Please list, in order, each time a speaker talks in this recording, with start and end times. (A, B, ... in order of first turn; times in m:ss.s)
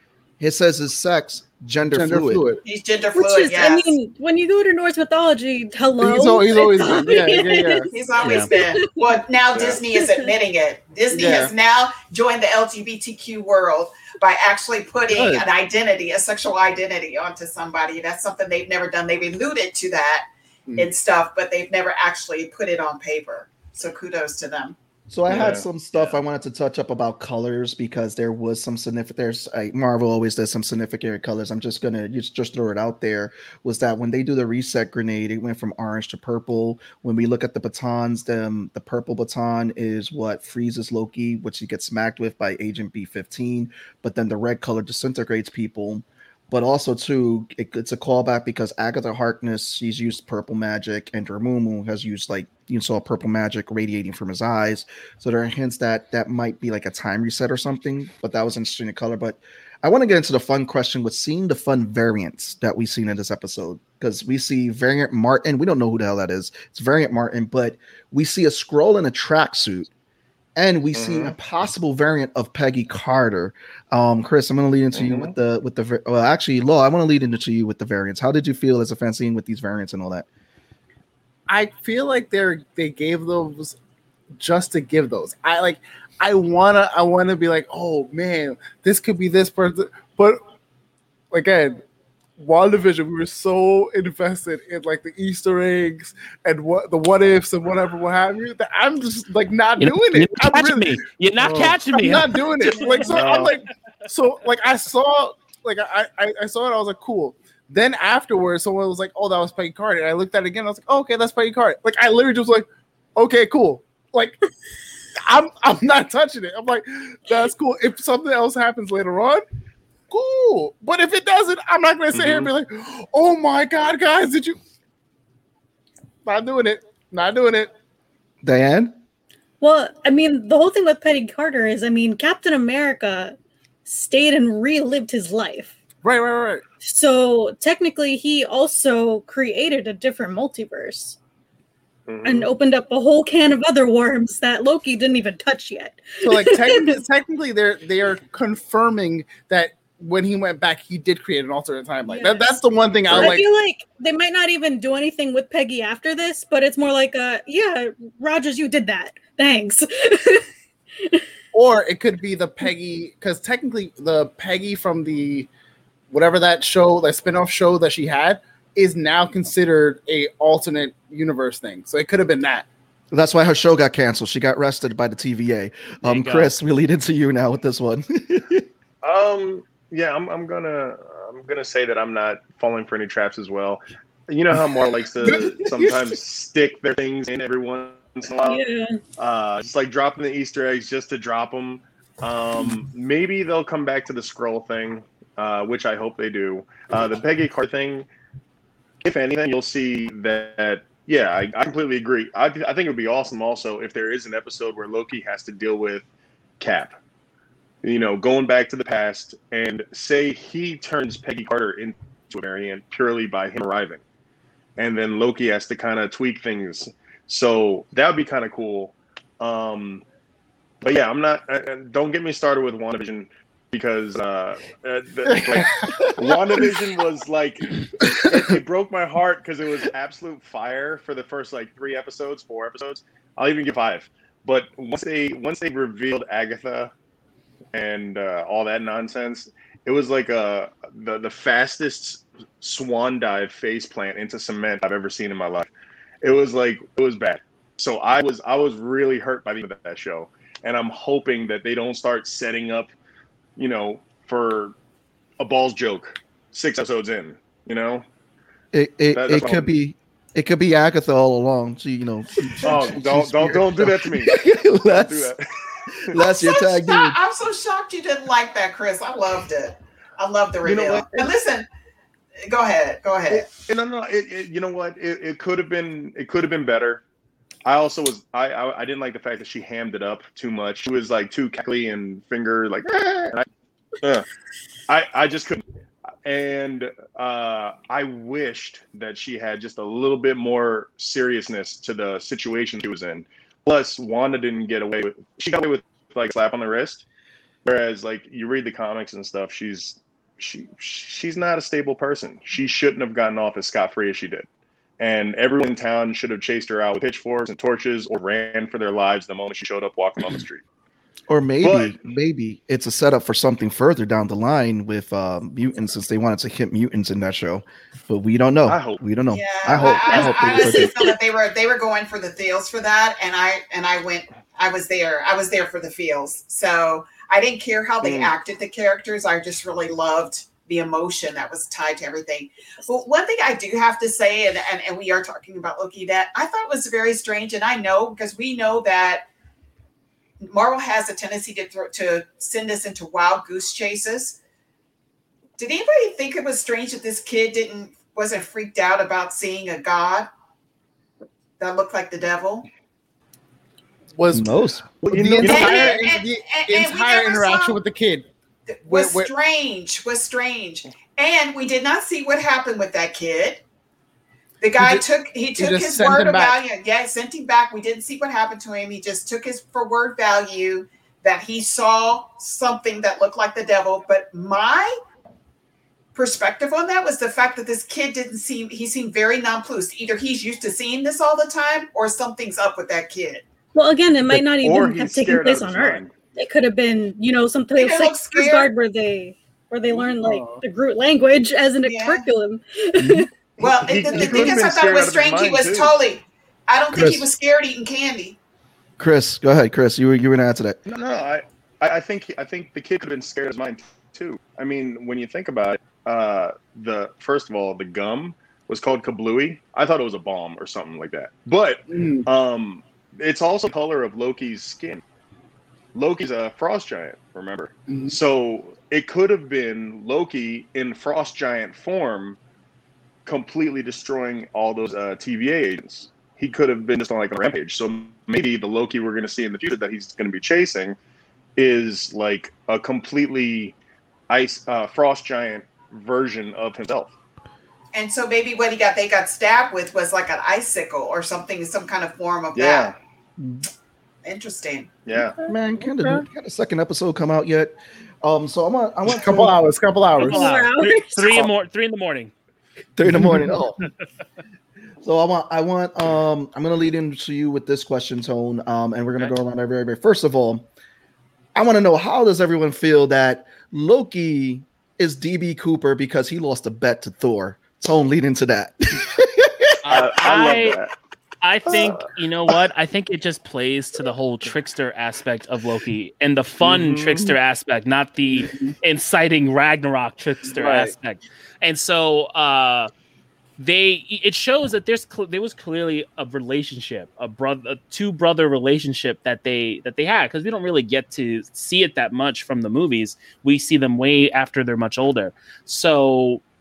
0:00.4-0:02.4 A
0:01.9-0:02.6 B
0:02.6-0:04.0 C
0:03.2-0:09.1 D
0:06.0-0:07.9 B
0:07.9-0:24.8 C
0:08.2-0:08.5 E
0:09.5-0:09.8 F
0:09.9-0:10.3 D
0:11.1-0:11.5 B
0:15.1-0:15.4 B
0:25.1-1:09.9 A
0:25.3-0:25.6 F
1:10.6-1:20.2 A
1:10.9-1:11.3 F
1:14.9-1:15.3 F
1:21.5-1:23.8 B
1:24.4-1:30.4 B
1:31.3-1:31.8 B
1:32.4-1:54.4 B
1:39.8-1:42.8 E
1:42.7-1:43.3 D
1:43.1-1:43.5 F
1:55.3-1:59.4 B
2:00.1-2:04.6 B
2:02.1-2:02.5 F
2:06.2-2:07.7 B
2:08.4-2:09.0 A
2:09.6-2:15.8 D
2:16.0-2:16.6 B
2:16.8-2:21.2 D
2:22.1-2:22.5 F
2:22.2-2:27.0 D
2:26.2-2:33.4 B
2:32.0-2:40.5 D
2:41.0-2:41.2 D
2:41.5-2:45.5 B
2:46.1-2:52.6 B
2:53.1-2:58.7 A
2:56.0-2:56.5 E
2:59.0-3:08.6 F
3:05.2-3:05.9 B
3:08.4-3:09.0 D
3:09.2-3:18.1 F
3:19.0-3:26.0 F
3:26.6-3:26.9 F
3:27.8-3:34.0 F
3:34.8-3:40.0 F
3:40.8-3:56.9 F
3:45.3-3:45.9 B
3:57.7-4:05.7 F
4:06.2-4:12.9 F
4:13.6-4:14.7 F
4:15.4-4:18.0 F
4:18.7-4:25.3 A
4:19.1-4:19.7 F
4:22.6-4:25.4 F
4:26.0-4:27.2 A
4:26.1-4:31.7 C
4:30.6-4:31.1 F
4:32.5-4:33.5 C
4:33.3-4:37.0 F
4:37.6-4:43.4 F
4:44.9-4:45.6 F
4:46.2-4:57.0 F
4:57.6-5:04.5 F
5:05.0-5:10.6 F
5:11.3-5:20.9 A
5:11.6-5:12.0 F
5:18.7-5:19.0 F
5:19.3-5:39.2 C
5:19.8-5:21.1 D
5:28.0-5:28.3 F
5:40.4-5:44.4 C
5:45.6-5:50.3 C
5:51.6-5:52.7 C
5:54.1-5:58.3 B
5:54.3-5:55.5 A
5:55.1-5:55.9 F
5:55.4-5:57.8 C
5:58.7-6:03.6 C
5:58.8-5:59.3 B
6:04.6-6:14.9 C
6:04.8-6:05.0 B
6:05.6-6:06.6 B
6:16.1-6:23.4 C
6:23.7-6:33.3 D
6:24.4-6:26.1 F
6:27.8-6:28.7 C
6:29.9-6:30.6 B
6:31.8-6:32.3 C
6:33.0-6:33.2 A
6:33.6-6:38.4 C
6:33.8-6:36.0 F
6:34.1-6:34.5 B
6:36.9-6:37.3 A
6:39.0-6:40.8 A
6:40.8-6:55.0 F
6:51.9-6:52.3 B
6:55.9-7:02.4 F
6:57.9-6:58.2 B
7:03.2-7:11.0 F
7:11.6-7:13.7 F
7:14.3-7:17.1 F
7:17.9-7:22.9 C
7:22.5-7:23.0 F
7:23.4-7:23.7 A
7:24.2-7:24.9 C
7:25.0-7:25.4 F
7:25.5-7:29.6 A
7:25.8-7:26.2 B
7:29.1-7:30.5 B
7:30.2-7:32.3 E
7:30.2-7:31.5 D
7:33.0-7:33.8 A
7:35.0-7:40.7 A
7:41.5-7:49.6 A
7:49.8-7:50.8 E
7:49.8-7:50.9 F
7:51.4-8:02.9 E
7:51.7-7:52.0 F
7:56.6-7:57.3 F
7:58.4-7:58.7 B
8:00.5-8:00.9 B
8:03.6-8:16.4 E